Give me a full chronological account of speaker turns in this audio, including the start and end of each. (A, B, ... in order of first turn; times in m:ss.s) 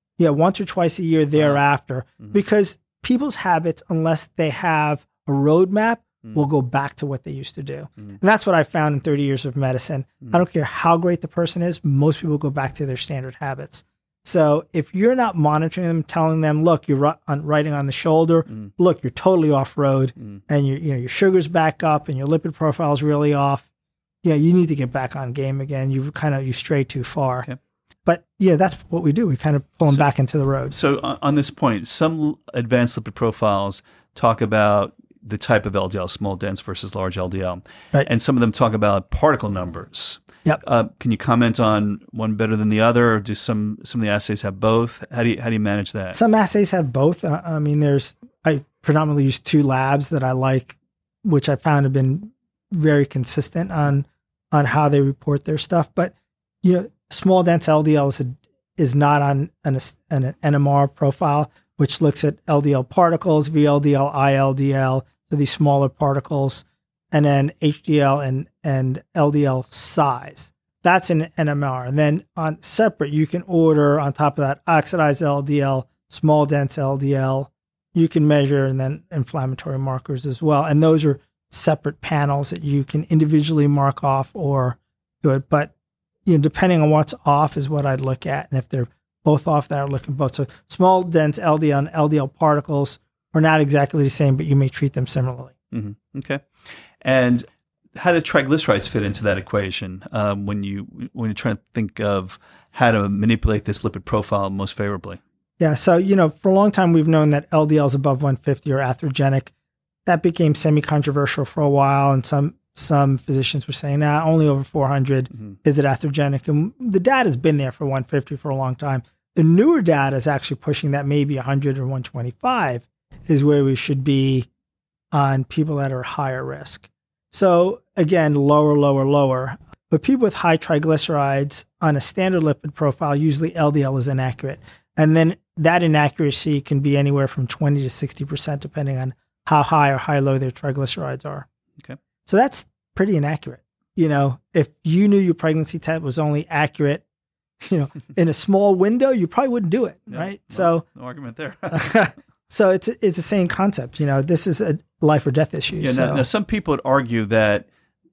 0:00.2-0:23.7 A
0:01.4-0:01.6 B
0:24.2-0:27.5 A
0:28.0-0:30.8 A
0:30.7-0:46.2 B
0:46.1-1:25.7 A
1:26.3-1:35.5 A
1:35.7-1:36.4 B
1:37.0-1:37.4 B
1:38.0-1:45.2 B
1:45.6-1:49.5 A
1:50.1-2:04.5 A
2:05.1-2:21.5 A
2:22.2-2:27.0 A
2:27.6-2:30.9 A
2:30.1-2:32.1 B
2:31.7-2:36.2 A
2:35.8-2:37.7 B